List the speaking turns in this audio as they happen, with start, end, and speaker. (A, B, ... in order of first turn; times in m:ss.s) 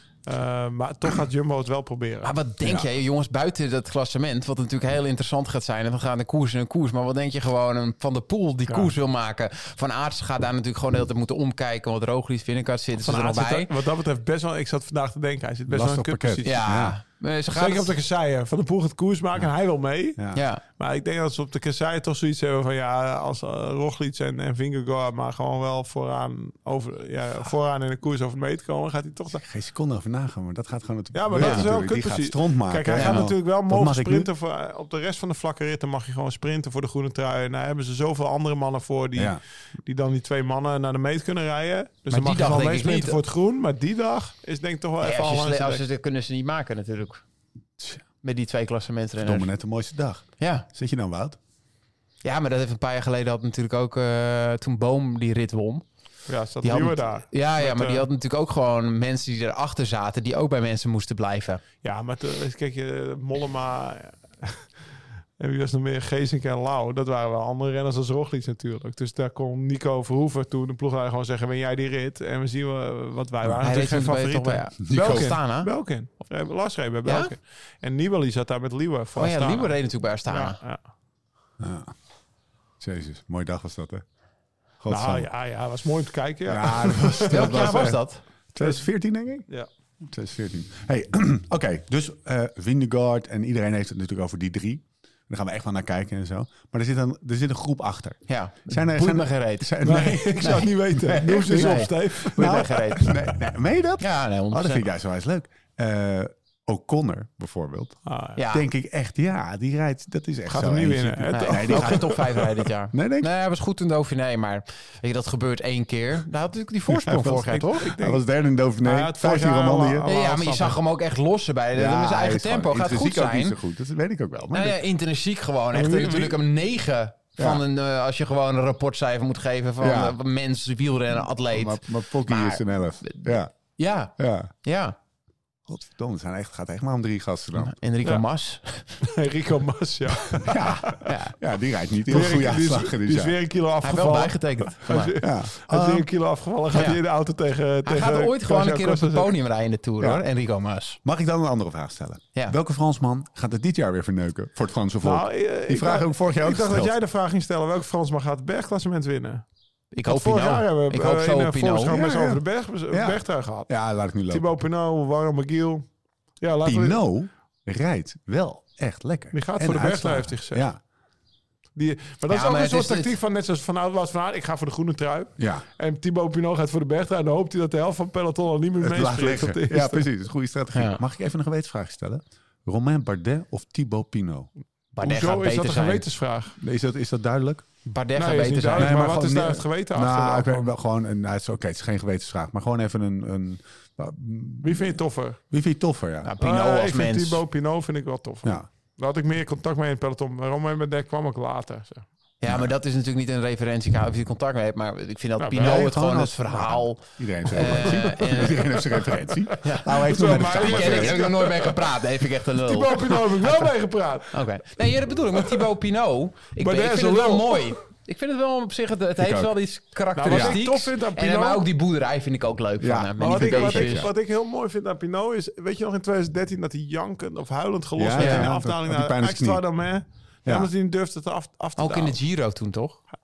0:00.3-0:02.3 A
0:02.2-0:13.7 B
0:02.6-0:02.9 C
0:13.0-0:16.6 A
0:15.7-0:17.0 C
0:16.4-0:17.9 B
0:17.6-0:29.4 A
0:20.2-0:20.4 C
0:20.3-0:20.6 B
0:29.3-0:34.3 C
0:31.1-0:45.8 A
0:31.4-0:31.7 B
0:32.9-0:33.3 B
0:42.1-0:43.2 B
0:45.0-0:47.2 B
0:48.2-0:49.5 B
0:49.2-0:51.4 C
0:50.4-0:50.7 B
0:52.2-0:55.8 B
0:56.3-0:58.1 A
0:56.6-1:01.6 B
1:01.8-1:04.7 A
1:05.4-1:20.8 A
1:13.6-1:15.7 B
1:14.8-1:15.4 C
1:17.0-1:17.3 B
1:19.2-1:20.6 B
1:21.6-1:21.9 C
1:22.8-1:24.0 C
1:24.8-1:25.3 C
1:24.9-1:27.9 A
1:26.5-1:28.0 C
1:27.3-1:28.2 B
1:28.5-1:29.5 C
1:30.0-1:52.2 C
1:38.3-1:43.2 B
1:39.8-1:43.2 A
1:44.0-1:44.8 B
1:48.1-1:48.4 A
1:48.4-1:48.7 B
1:50.5-1:52.5 A
1:51.3-1:57.9 B
1:52.9-1:53.3 C
1:56.9-2:00.1 C
1:57.3-1:58.2 A
1:58.8-2:00.8 A
2:00.1-2:03.6 B
2:01.7-2:04.8 C
2:04.5-2:15.0 B
2:05.7-2:06.4 A
2:07.4-2:07.6 C
2:09.8-2:10.2 C
2:11.5-2:13.5 C
2:14.2-2:14.5 C
2:15.7-2:17.7 C
2:17.6-2:18.9 B
2:19.0-2:21.1 A
2:20.4-2:23.4 C
2:21.0-2:21.4 B
2:22.1-2:29.4 A
2:23.8-2:25.2 B
2:25.2-2:26.1 C
2:26.7-2:27.0 B
2:27.8-2:31.0 B
2:31.0-2:37.0 C
2:35.0-2:39.4 A
2:39.9-2:42.0 B
2:40.0-2:43.7 A
2:41.9-2:44.5 C
2:44.3-2:45.8 A
2:46.4-2:47.0 A
2:46.6-2:50.8 C
2:49.3-2:50.7 A
2:51.8-3:00.1 A
2:52.3-2:53.1 B
2:55.4-2:55.7 C
2:58.8-3:04.5 C
3:00.7-3:01.0 B
3:04.9-3:06.0 B
3:05.0-3:06.6 A
3:06.6-3:07.6 C
3:07.9-3:09.0 B
3:08.2-3:10.7 A
3:08.8-3:15.0 C
3:14.6-3:15.4 A
3:15.5-3:16.3 C
3:16.2-3:17.4 B
3:16.4-3:22.0 A
3:22.4-3:28.8 B
3:22.4-3:22.7 C
3:25.4-3:25.9 A
3:25.6-3:31.3 C
3:27.6-3:34.4 A
3:29.6-3:33.7 B
3:34.3-3:44.1 B
3:36.6-3:37.8 A
3:39.2-3:39.6 C
3:40.2-3:41.6 A
3:40.3-3:40.6 C
3:42.8-3:44.1 C
3:43.2-3:52.2 A
3:48.0-3:49.6 C
3:48.2-3:48.5 B
3:50.4-3:50.7 C
3:51.8-3:53.0 B